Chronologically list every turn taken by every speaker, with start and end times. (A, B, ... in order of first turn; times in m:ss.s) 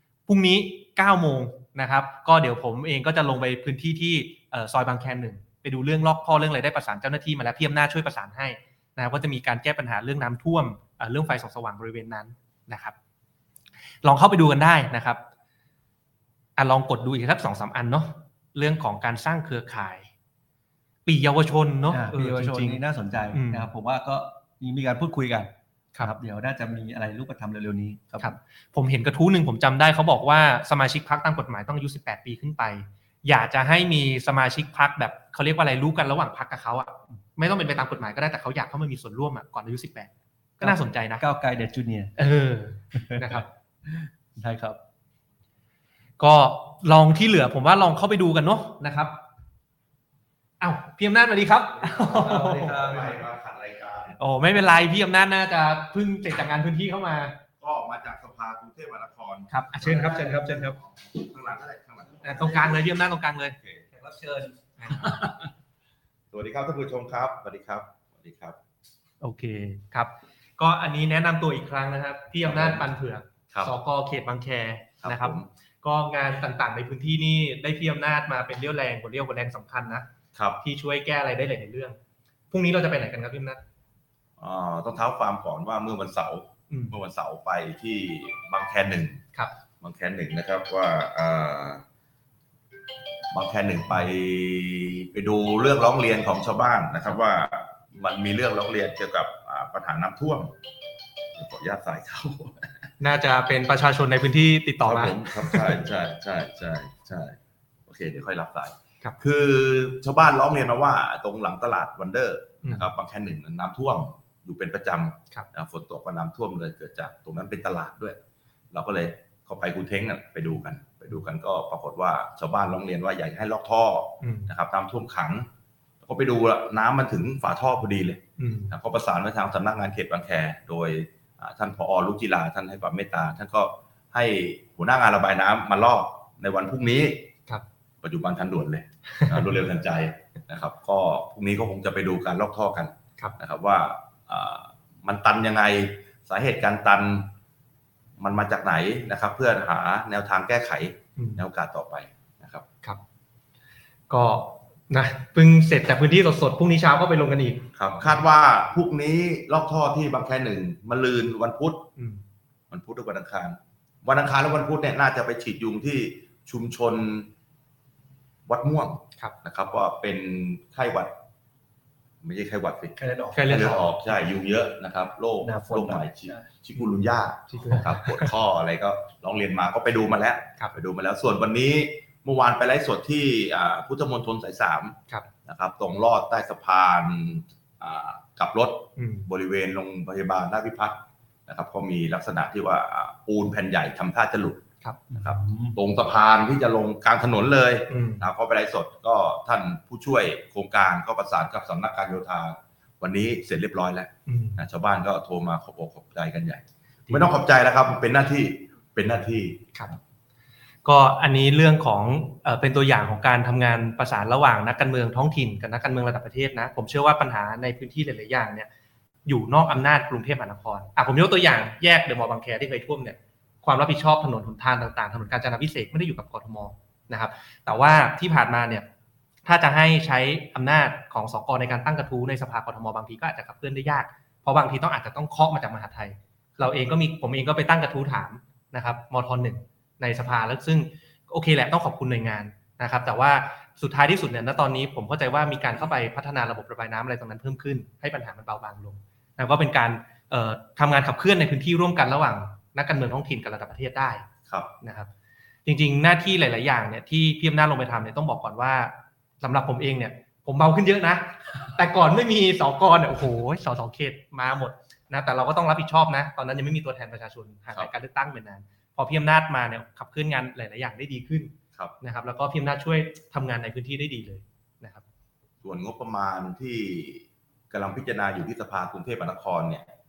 0:00.3-0:12.9 A
0:14.0-0:15.2 A
0:16.6-0:20.1 A
0:21.0-0:22.8 A
0:21.9-0:28.3 B
0:23.3-0:23.7 A
0:28.2-0:41.2 A
0:40.6-0:42.1 B
0:42.2-0:43.5 A
0:42.9-0:44.8 B
0:46.2-0:49.2 A
0:50.6-0:53.0 A
0:51.8-0:54.2 C
0:52.1-0:53.2 B
0:54.2-0:57.4 A
0:57.6-1:02.9 C
0:59.5-1:00.8 A
1:02.2-1:03.6 A
1:03.6-1:03.8 C
1:03.9-1:04.9 B
1:04.8-1:05.1 A
1:05.0-1:05.4 C
1:06.3-1:08.6 C
1:09.2-1:20.1 A
1:12.4-1:12.9 C
1:15.0-1:15.5 C
1:20.3-1:20.6 C
1:20.6-1:22.0 A
1:22.5-1:23.6 A
1:24.4-1:29.2 C
1:26.7-1:27.0 A
1:29.8-1:31.8 C
1:33.3-1:40.5 C
1:41.3-1:42.7 C
1:43.0-1:45.8 A
1:44.8-1:58.2 C
1:58.7-2:05.5 C
2:04.2-2:04.5 A
2:06.0-2:17.3 C
2:08.4-2:08.7 A
2:18.0-2:27.3 C
2:19.2-2:19.5 A
2:28.2-2:32.6 C
2:31.2-2:31.4 A
2:34.1-2:38.2 A
2:37.7-2:41.9 C
2:42.0-2:42.2 A
2:42.7-2:47.3 C
2:48.5-2:51.2 C
2:52.2-3:14.6 C
2:53.0-2:53.8 B
2:53.3-2:53.9 A
2:55.4-2:56.4 B
2:57.5-2:58.3 A
3:09.0-3:09.2 A
3:15.1-3:15.8 B
3:15.2-3:29.7 C
3:17.9-3:18.2 A
3:24.3-3:24.6 A
3:30.8-3:38.7 A
3:39.2-3:48.8 A
3:49.4-4:14.2 A
4:14.8-4:15.1 A
4:15.6-4:35.0 A
4:35.6-4:39.9 C